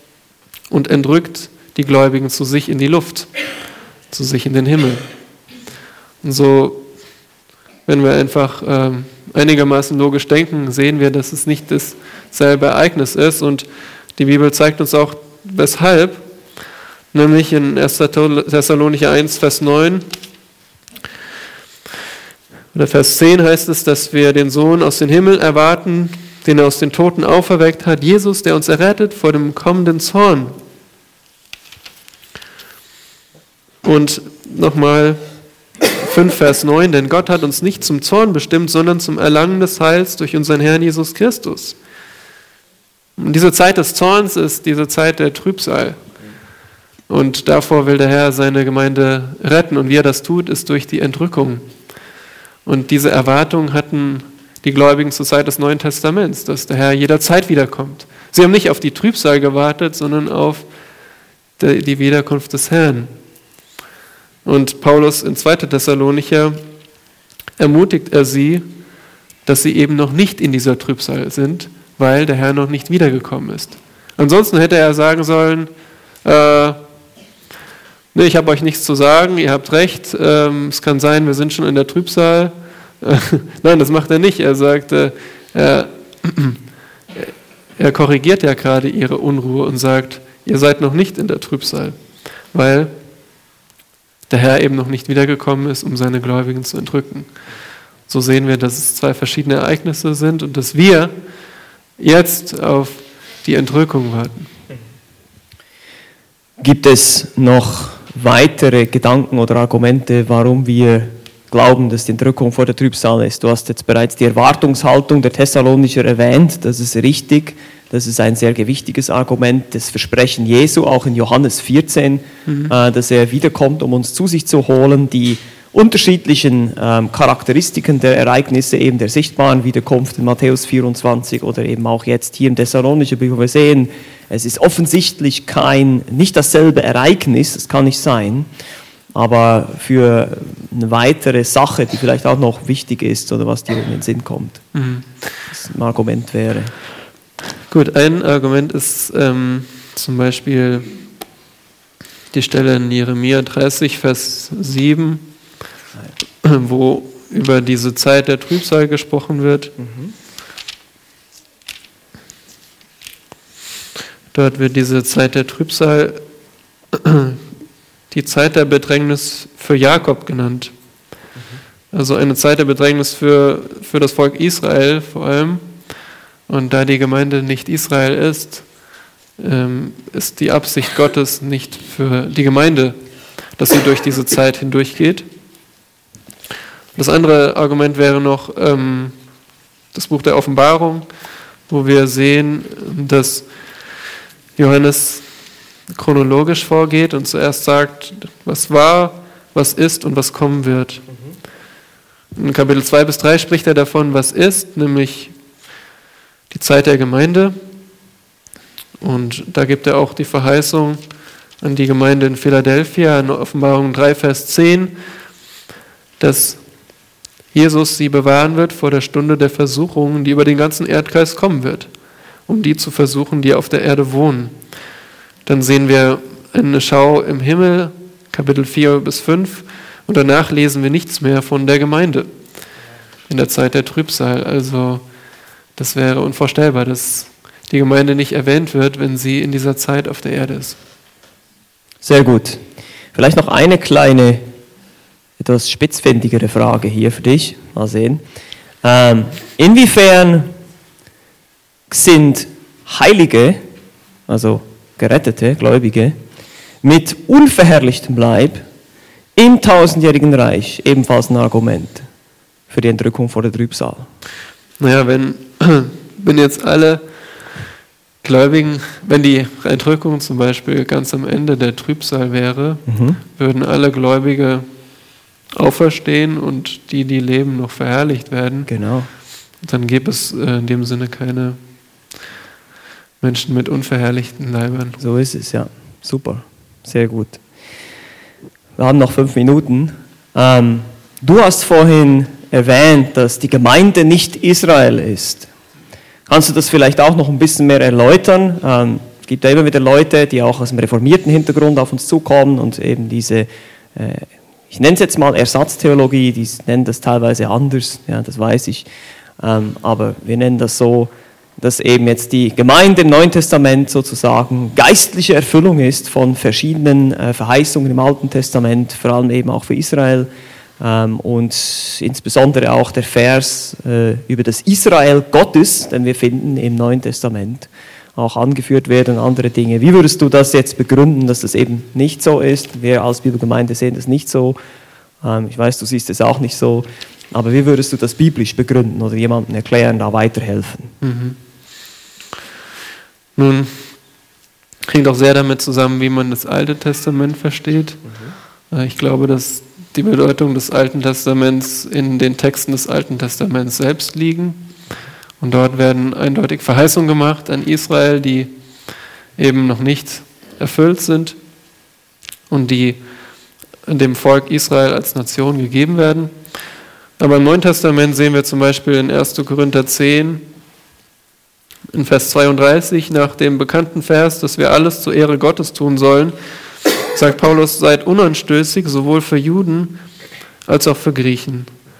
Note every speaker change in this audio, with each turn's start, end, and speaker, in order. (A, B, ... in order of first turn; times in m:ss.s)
0:00.7-0:03.3 A
0:04.1-0:05.0 A
0:06.2-0:06.9 A
0:07.8-0:16.2 A
0:17.1-0:20.0 A
0:22.7-0:30.5 A
0:33.8-0:35.2 A
0:35.9-0:41.8 A
0:43.2-0:46.0 A
0:47.1-0:51.7 A
0:52.6-1:00.7 A
1:01.6-1:03.1 A
1:04.4-1:06.6 A
1:07.6-1:08.6 A
1:09.4-1:15.7 A
1:16.2-1:16.8 A
1:18.1-1:26.6 A
1:27.1-1:32.0 A
1:32.5-1:32.9 A
1:34.3-1:37.3 A
1:38.1-1:41.1 A
1:42.0-1:44.5 A
1:46.6-2:18.5 B
2:02.4-2:02.7 A
2:19.1-2:24.6 B
2:24.7-2:25.3 A
2:25.5-2:26.7 B
2:27.7-2:30.9 A
2:32.3-2:35.2 A
2:36.4-2:39.7 A
2:39.8-2:40.1 B
2:44.3-2:46.2 A
2:46.9-2:47.4 A
2:48.1-2:50.7 A
2:51.9-2:55.6 A
2:56.5-2:58.7 A
2:59.4-3:03.0 A
3:03.5-3:05.3 A
3:06.9-3:09.2 A
3:09.9-3:11.0 A
3:11.7-3:13.5 A
3:14.6-3:15.3 A
3:15.9-3:21.0 A
3:22.4-3:25.3 A
3:26.5-3:27.6 A
3:29.0-3:31.0 A
3:31.6-3:35.0 A
3:36.2-3:36.6 A
3:37.5-3:41.9 A
3:42.5-3:44.5 A
3:45.4-3:52.3 A
3:53.3-3:55.0 A
3:55.8-4:00.8 A
4:02.0-4:04.5 B
4:05.4-4:08.2 B
4:08.8-4:10.5 B
4:11.9-4:13.6 B
4:14.3-4:16.2 B
4:16.8-4:18.6 B
4:19.4-4:22.1 B
4:22.7-4:24.1 B
4:24.8-4:27.0 A
4:28.2-4:32.8 A
4:32.9-4:33.2 B
4:33.4-4:34.6 A
4:35.5-4:38.7 A
4:38.7-4:39.1 B
4:39.6-4:41.6 A
4:43.2-4:45.0 A
4:45.0-4:47.4 B
4:48.8-4:55.5 B
4:56.3-5:08.9 B
5:09.4-5:20.3 B
5:20.8-5:34.6 B
5:35.2-5:40.9 B
5:41.0-5:41.4 A
5:43.4-5:43.9 A
5:44.9-5:48.0 A
5:48.1-5:48.3 B
5:48.7-5:54.7 A
5:55.4-5:58.5 A
5:59.4-6:01.4 A
6:02.5-6:03.0 A
6:03.8-6:06.3 A
6:07.2-6:10.4 A
6:11.9-6:16.3 A
6:17.1-6:20.0 A
6:20.7-6:21.7 A